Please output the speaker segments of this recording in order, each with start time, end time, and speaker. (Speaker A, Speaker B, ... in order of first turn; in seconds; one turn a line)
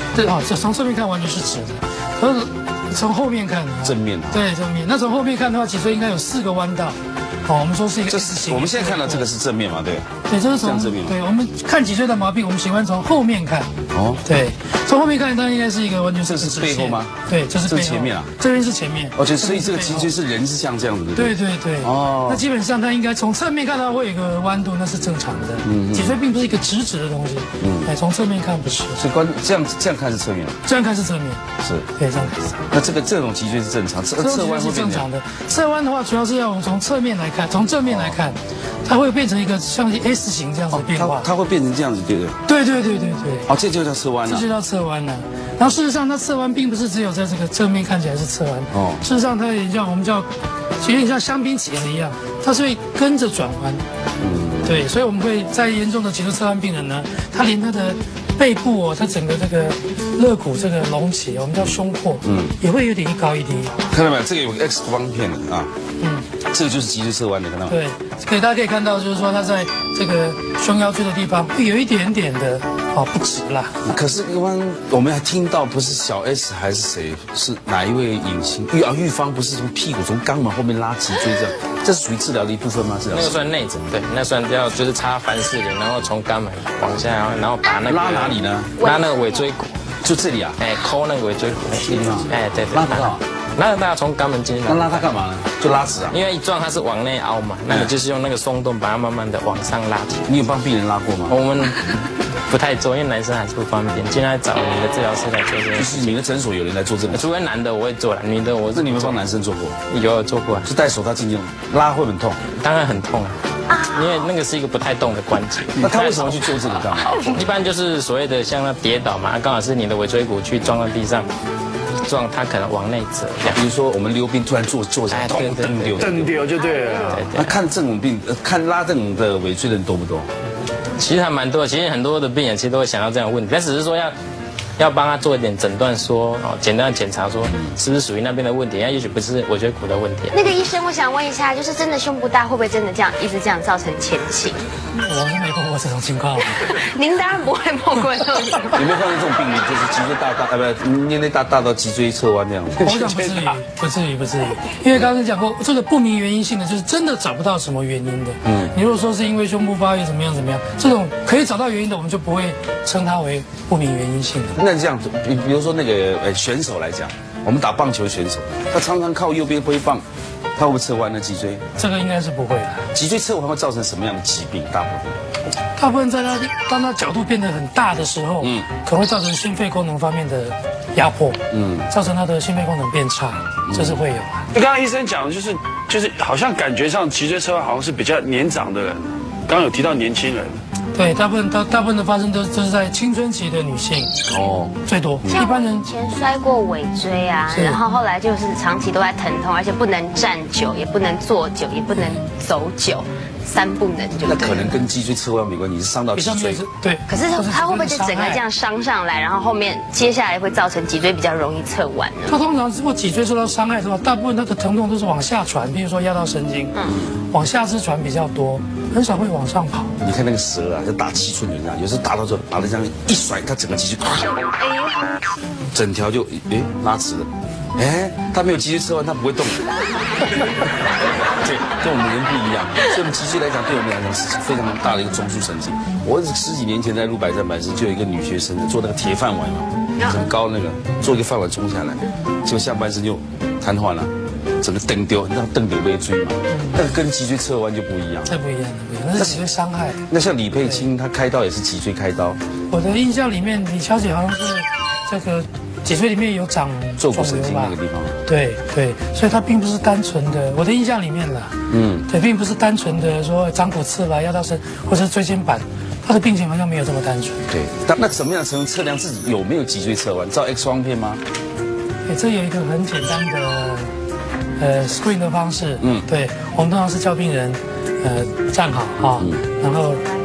Speaker A: 0.1-9.3
Speaker B: 3.8-4.5
Speaker B: 8.1-11.2
Speaker A: 10.3-13.7
Speaker B: 13.9-14.2
Speaker A: 14.2-20.1
Speaker B: 16.2-18.3
Speaker B: 19.1-22.4
Speaker A: 21.1-29.0
Speaker B: 25.6-26.2
Speaker B: 27.6-27.9
Speaker B: 29.0-30.6
Speaker A: 30.6-31.4
Speaker B: 31.6-31.9
Speaker A: 32.0-32.7
Speaker B: 32.7-35.1
Speaker A: 34.2-41.3
Speaker B: 37.9-38.2
Speaker B: 40.7-42.4
Speaker A: 42.5-43.5
Speaker B: 43.5-44.5
Speaker A: 44.2-50.3
Speaker B: 48.7-49.0
Speaker A: 50.8-53.8
Speaker B: 54.2-54.8
Speaker A: 54.6-63.8
Speaker B: 61.6-62.6
Speaker B: 63.9-65.7
Speaker A: 66.0-66.3
Speaker B: 66.4-67.8
Speaker A: 67.7-73.8
Speaker B: 73.8-83.4
Speaker C: 83.1-89.7
Speaker B: 87.8-88.7
Speaker D: 88.8-89.4
Speaker B: 90.0-90.6
Speaker C: 90.6-95.1
Speaker B: 91.8-93.2
Speaker B: 94.7-96.2
Speaker C: 96.1-100.3
Speaker B: 100.2-101.4
Speaker C: 101.3-101.8
Speaker C: 102.5-106.2
Speaker B: 105.7-107.2
Speaker C: 107.1-109.2
Speaker B: 108.7-109.8
Speaker C: 109.9-110.7
Speaker B: 110.6-112.4
Speaker C: 112.5-116.5
Speaker D: 113.7-114.3
Speaker B: 115.8-117.5
Speaker D: 117.0-117.3
Speaker C: 117.3-121.3
Speaker C: 122.0-123.6
Speaker B: 123.5-126.3
Speaker C: 125.1-126.3
Speaker E: 126.0-127.3
Speaker D: 126.6-127.2
Speaker C: 127.1-127.5
Speaker B: 127.3-130.3
Speaker C: 131.0-134.1
Speaker C: 134.8-140.4
Speaker D: 140.3-144.7
Speaker A: 144.9-146.7
Speaker D: 146.5-148.8
Speaker B: 148.7-153.0
Speaker A: 152.8-164.6
Speaker E: 152.9-153.5
Speaker B: 158.4-158.8
Speaker B: 164.5-170.0
Speaker B: 170.6-171.7
Speaker A: 171.8-172.9
Speaker B: 172.9-175.2
Speaker A: 175.8-184.5
Speaker B: 178.4-178.7
Speaker B: 181.5-181.9
Speaker B: 183.7-184.0
Speaker E: 184.5-190.6
Speaker A: 190.9-194.2
Speaker B: 194.3-195.4
Speaker A: 194.8-195.9
Speaker D: 195.3-204.8
Speaker A: 197.5-197.8
Speaker B: 204.2-206.6
Speaker A: 206.1-208.4
Speaker D: 207.1-212.4
Speaker A: 212.3-216.7
Speaker A: 217.3-219.9
Speaker B: 220.0-224.3
Speaker D: 224.6-225.6
Speaker B: 225.7-229.7
Speaker B: 231.2-248.3
Speaker A: 246.5-246.8
Speaker A: 248.2-250.1
Speaker B: 249.1-249.4
Speaker B: 250.1-252.4
Speaker A: 252.7-267.4
Speaker B: 257.0-258.1
Speaker B: 261.7-262.1
Speaker B: 267.5-271.2
Speaker A: 272.1-273.9
Speaker A: 274.6-280.0
Speaker B: 275.8-276.1
Speaker B: 279.2-279.4